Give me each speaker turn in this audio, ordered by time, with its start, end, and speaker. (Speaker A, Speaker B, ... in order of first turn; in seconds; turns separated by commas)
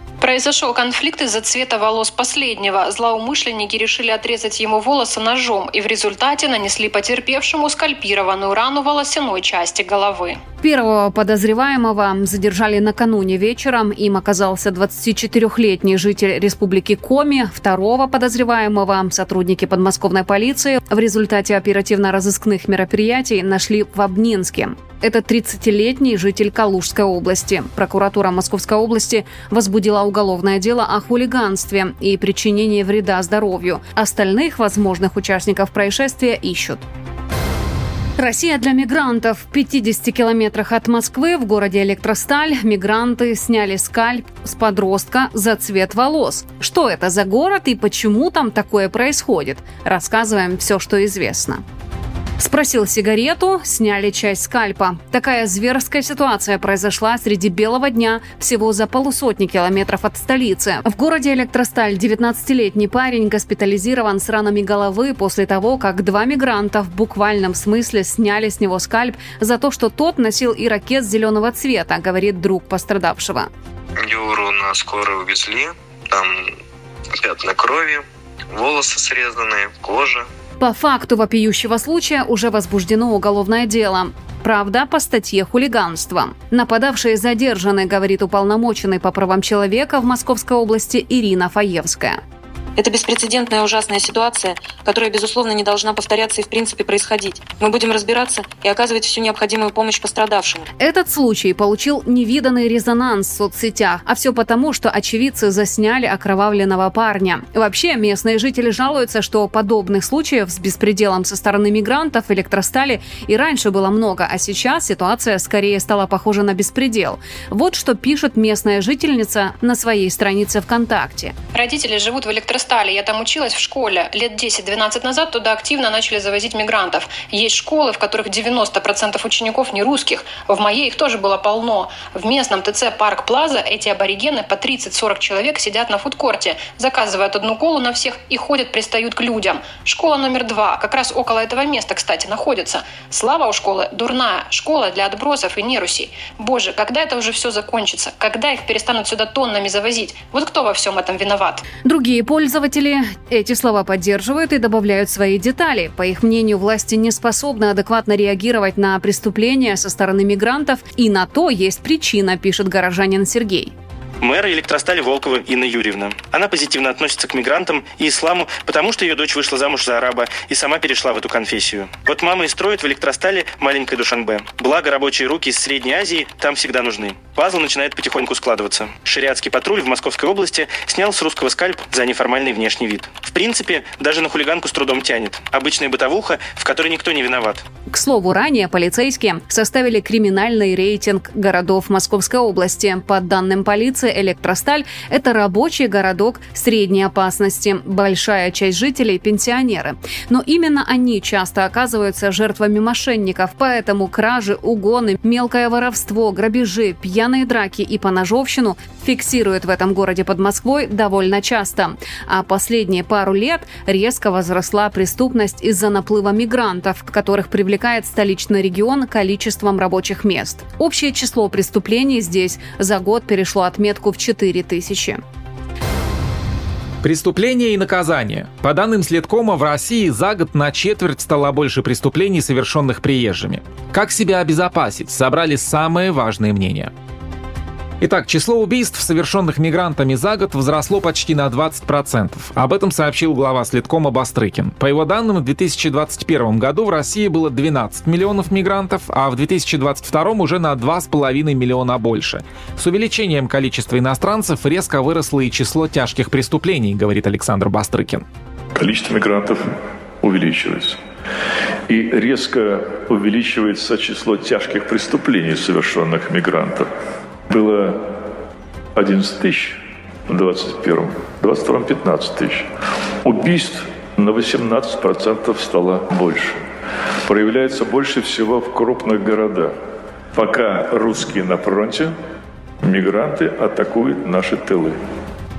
Speaker A: 0.2-10.4, Speaker B: 10.6-36.8, Speaker B: 38.2-51.6, Speaker B: 52.4-73.5, Speaker C: 74.0-76.5, Speaker C: 77.2-80.3, Speaker B: 80.6-92.2, Speaker D: 92.8-100.6, Speaker B: 100.8-121.3, Speaker A: 121.5-151.6, Speaker B: 151.8-163.7, Speaker E: 164.2-187.6, Speaker B: 187.9-225.2, Speaker F: 227.0-236.9, Speaker F: 238.0-258.2, Speaker G: 258.8-259.6, Speaker G: 260.2-261.0, Speaker G: 261.9-266.9, Speaker G: 267.5-268.0, Speaker G: 268.9-272.7, Speaker G: 273.2-276.6, Speaker G: 277.2-279.7, Speaker G: 280.3-282.1, Speaker G: 282.8-285.0